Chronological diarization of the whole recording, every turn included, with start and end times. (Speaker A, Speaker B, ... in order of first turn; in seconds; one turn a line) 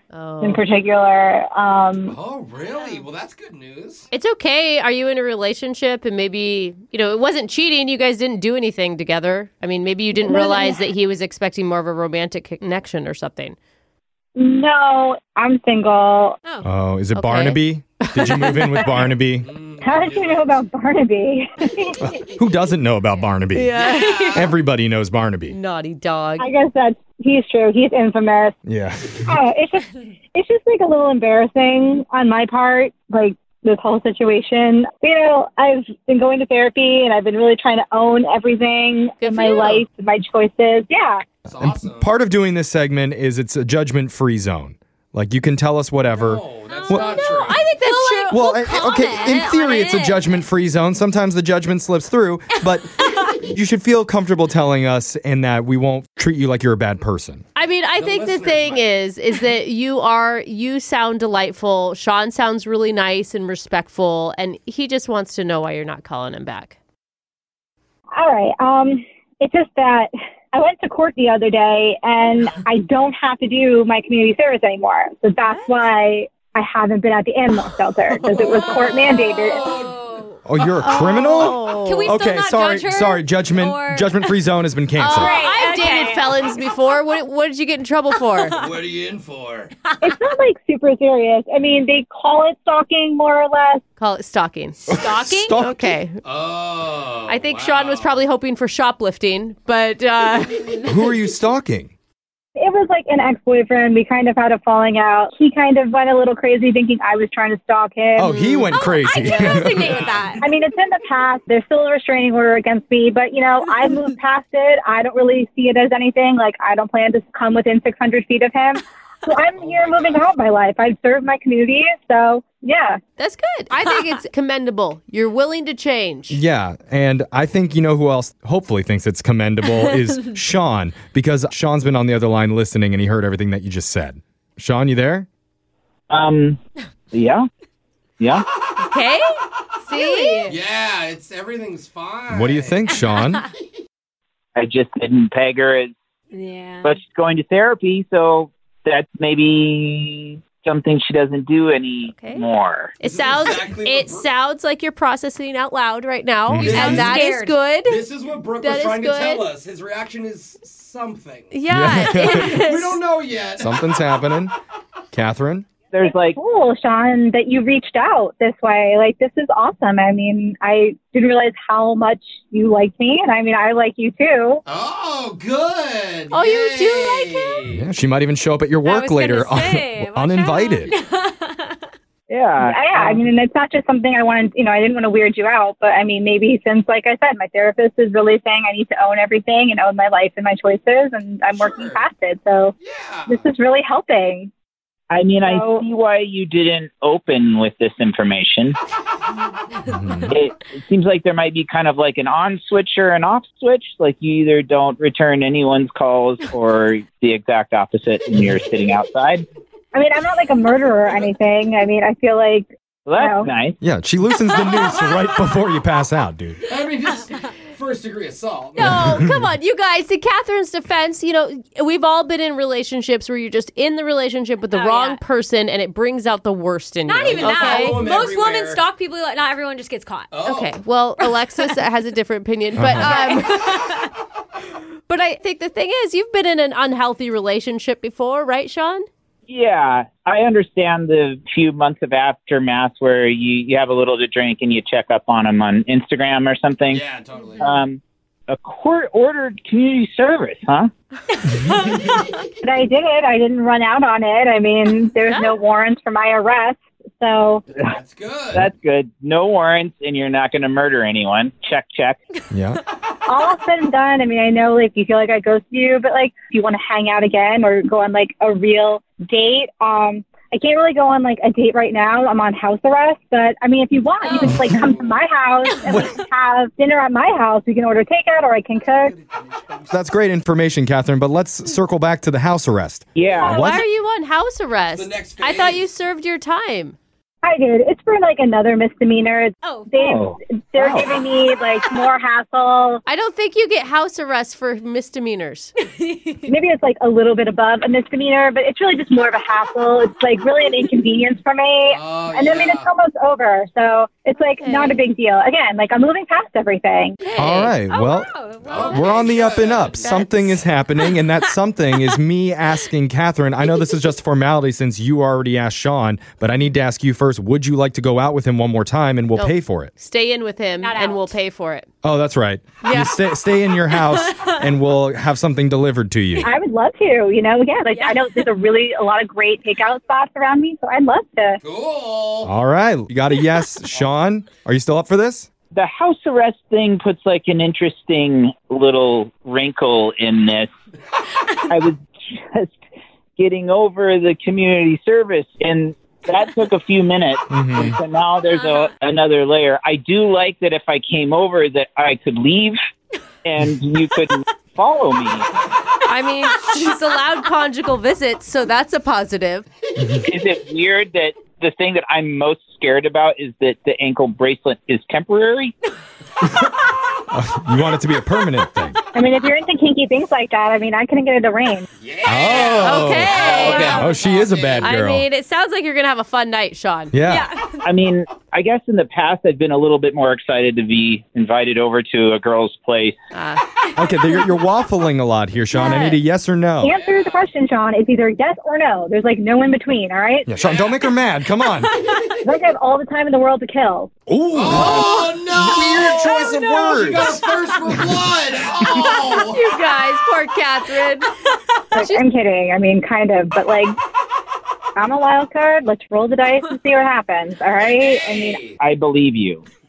Speaker A: 0.1-0.6
Speaker B: 0.4-2.2
Speaker C: 2.0-4.1
Speaker A: 2.7-3.0
Speaker A: 4.1-13.6
Speaker B: 10.2-10.8
Speaker B: 14.4-16.4
Speaker D: 16.6-19.5
Speaker A: 17.1-19.1
Speaker C: 19.4-20.6
Speaker B: 19.8-22.0
Speaker D: 22.0-23.8
Speaker A: 23.5-24.5
Speaker C: 23.8-24.5
Speaker D: 24.3-25.6
Speaker A: 25.5-26.5
Speaker B: 26.4-28.6
Speaker D: 28.7-29.3
Speaker B: 29.3-41.2
Speaker A: 39.2-39.9
Speaker C: 41.5-42.1
Speaker D: 41.6-47.2
Speaker C: 46.1-47.8
Speaker E: 46.7-50.2
Speaker A: 47.7-48.4
Speaker D: 48.3-57.4
Speaker A: 57.5-66.8
Speaker C: 58.0-58.9
Speaker B: 68.1-79.7
Speaker A: 78.1-79.0
Speaker C: 78.5-80.3
Speaker E: 79.0-84.4
Speaker D: 80.5-85.3
Speaker A: 80.7-82.2
Speaker A: 85.0-88.6
Speaker E: 85.1-87.2
Speaker E: 88.2-88.7
Speaker C: 88.5-89.7
Speaker B: 90.0-93.8
Speaker A: 94.0-96.2
Speaker D: 94.9-96.0
Speaker E: 95.0-95.5
Speaker C: 96.2-98.2
Speaker A: 97.3-100.8
Speaker D: 100.8-101.9
Speaker B: 102.6-108.4
Speaker D: 108.2-110.1
Speaker A: 108.2-108.8
Speaker E: 108.7-110.5
Speaker C: 109.5-110.4
Speaker B: 110.4-123.0
Speaker C: 119.5-120.3
Speaker A: 123.2-126.4
Speaker D: 126.3-135.3
Speaker F: 136.1-136.6
Speaker F: 137.1-137.5
Speaker F: 138.2-138.4
Speaker A: 138.8-139.2
Speaker A: 139.9-140.6
Speaker E: 139.9-140.6
Speaker C: 140.5-142.8
Speaker D: 142.3-143.4
Speaker F: 144.6-145.9
Speaker E: 146.3-147.0
Speaker F: 146.8-153.0
Speaker E: 152.1-152.4
Speaker A: 153.0-158.1
Speaker C: 153.0-154.3
Speaker D: 156.5-157.1
Speaker C: 156.6-157.2
Speaker E: 157.0-157.6
Speaker C: 157.8-164.0
Speaker A: 158.6-159.4
Speaker A: 161.5-163.0
Speaker D: 161.7-162.6
Speaker D: 163.6-164.5
Speaker D: 165.1-165.7
Speaker F: 165.9-166.4
Speaker B: 166.1-174.6
Speaker C: 174.7-177.8
Speaker A: 176.3-177.7
Speaker D: 177.7-180.9
Speaker E: 178.8-181.8
Speaker F: 182.3-183.2
Speaker B: 182.6-192.7
Speaker C: 191.5-192.1
Speaker C: 192.8-193.4
Speaker B: 193.3-194.5
Speaker F: 195.1-198.8
Speaker B: 195.4-195.8
Speaker D: 199.9-200.3
Speaker F: 200.3-209.4
Speaker B: 209.9-213.5
Speaker F: 213.1-213.8
Speaker D: 213.8-216.6
Speaker E: 214.6-215.4
Speaker C: 216.7-219.4
Speaker A: 218.8-228.0
Speaker D: 218.8-219.2
Speaker E: 224.7-225.2
Speaker E: 227.1-230.4
Speaker C: 227.1-228.9
Speaker C: 230.3-230.8
Speaker A: 230.4-234.0
Speaker D: 232.8-233.1
Speaker E: 233.0-233.9
Speaker A: 235.1-239.1
Speaker F: 239.5-247.0
Speaker C: 246.9-247.9
Speaker F: 247.6-250.9
Speaker C: 251.8-252.2
Speaker B: 252.6-257.6
Speaker A: 255.3-255.6
Speaker C: 257.8-258.7
Speaker F: 258.5-262.2
Speaker D: 262.5-262.8
Speaker B: 263.3-279.1
Speaker C: 274.2-275.2
Speaker D: 275.9-276.2
Speaker C: 278.9-280.1
Speaker D: 279.9-283.8
Speaker F: 283.2-283.6
Speaker A: 283.5-287.0
Speaker C: 284.9-285.9
Speaker B: 287.4-293.0
Speaker E: 289.6-290.2
Speaker F: 290.1-291.1
Speaker A: 293.1-295.7
Speaker E: 296.0-296.5
Speaker B: 296.5-307.2
Speaker C: 301.9-302.9
Speaker A: 304.4-305.0
Speaker E: 307.2-309.3
Speaker D: 307.4-319.9
Speaker A: 307.4-307.7
Speaker C: 308.6-310.2
Speaker A: 310.0-310.6
Speaker A: 319.4-321.9
Speaker E: 320.8-321.4
Speaker D: 322.0-326.5
Speaker A: 322.9-323.1
Speaker E: 324.2-324.6
Speaker B: 326.4-331.6
Speaker E: 327.9-328.4
Speaker C: 331.6-332.5
Speaker D: 332.4-335.5
Speaker F: 335.7-340.7
Speaker F: 341.7-342.8
Speaker F: 343.4-352.8
Speaker D: 347.5-348.0
Speaker E: 348.5-348.8
Speaker F: 353.4-355.5
Speaker A: 356.1-359.7
Speaker D: 360.0-360.2
Speaker F: 360.2-365.7
Speaker D: 367.3-369.0
Speaker B: 369.1-371.9
Speaker C: 372.0-375.0
Speaker D: 372.3-375.3
Speaker A: 372.8-374.1
Speaker E: 373.4-374.5
Speaker F: 373.5-374.0
Speaker A: 374.8-377.1
Speaker D: 377.1-377.5
Speaker E: 377.2-377.9
Speaker F: 377.8-383.2
Speaker A: 383.3-383.6
Speaker D: 384.0-387.0
Speaker A: 385.7-386.2
Speaker B: 386.8-390.5
Speaker C: 386.9-387.5
Speaker D: 390.5-391.9
Speaker C: 390.5-391.0
Speaker B: 392.4-394.1
Speaker D: 394.3-397.4
Speaker C: 394.5-399.7
Speaker F: 394.7-395.2
Speaker E: 396.2-397.0
Speaker A: 399.1-401.3
Speaker B: 401.9-404.0
Speaker B: 405.0-408.6
Speaker C: 407.8-408.8
Speaker F: 408.8-409.6